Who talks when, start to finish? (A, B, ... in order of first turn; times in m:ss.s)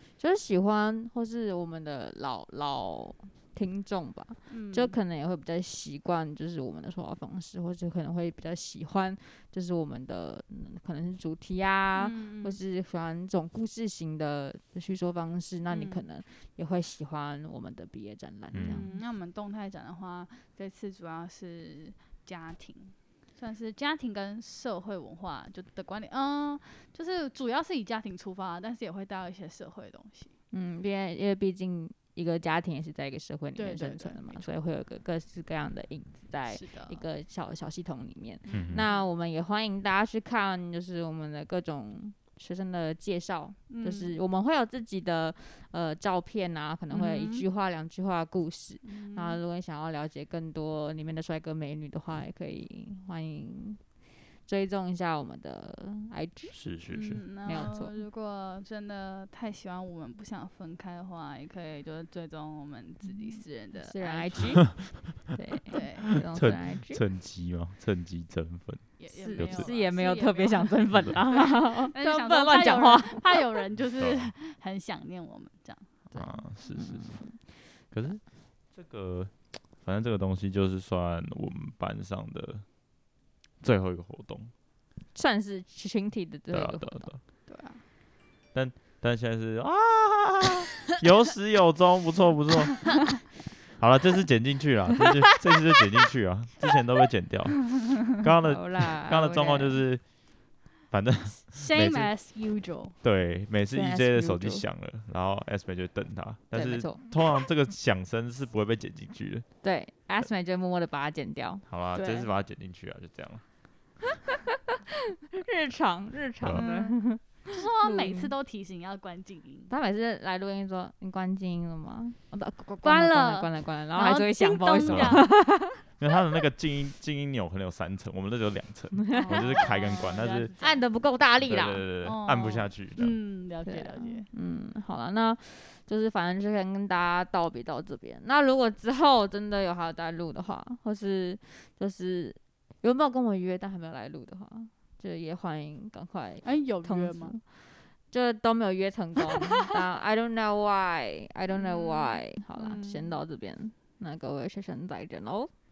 0:00.2-0:19.0 A
0:04.5-0:05.0 B
0:12.0-0:12.6 B
0:15.7-0:16.0 B
0:18.5-0:18.8 C
0:18.6-0:30.3 B
0:30.5-0:53.8 A
0:33.5-0:34.5 B
0:36.5-0:37.0 B
0:38.5-0:39.0 B
0:38.5-0:38.8 C
0:43.7-0:44.1 B
0:46.9-0:47.4 B
0:48.8-0:49.4 B
0:54.4-0:56.6 A
0:56.5-0:57.2 C
0:56.9-1:04.8 B
0:57.4-0:58.0 A
1:03.0-1:07.0 A
1:05.7-1:06.2 B
1:06.2-1:09.7 C
1:09.0-1:15.9 B
1:09.1-1:13.6 A
1:14.0-1:14.3 C
1:16.1-1:17.4 A
1:16.1-1:17.2 C
1:17.9-1:22.6 C
1:23.6-1:24.5 C
1:25.1-1:27.1 A
1:26.5-1:27.2 C
1:27.5-1:27.8 B
1:28.5-1:33.1 C
1:33.7-1:40.1 C
1:38.5-1:39.8 A
1:40.9-1:42.1 C
1:41.5-1:43.0 B
1:43.0-1:49.4 C
1:43.7-1:44.6 A
1:46.5-1:47.0 A
1:49.6-1:52.2 A
1:51.7-1:53.4 C
1:52.0-1:52.2 B
1:55.3-1:58.3 A
1:56.6-1:59.7 B
1:59.7-2:05.8 A
2:02.8-2:05.3 B
2:04.8-2:05.2 C
2:06.0-2:10.5 C
2:09.0-2:09.7 A
2:09.1-2:10.8 B
2:10.6-2:11.8 A
2:11.4-2:13.2 C
2:12.0-2:14.3 B
2:13.6-2:27.4 A
2:26.4-2:27.3 B
2:28.1-2:35.5 A
2:31.5-2:33.1 B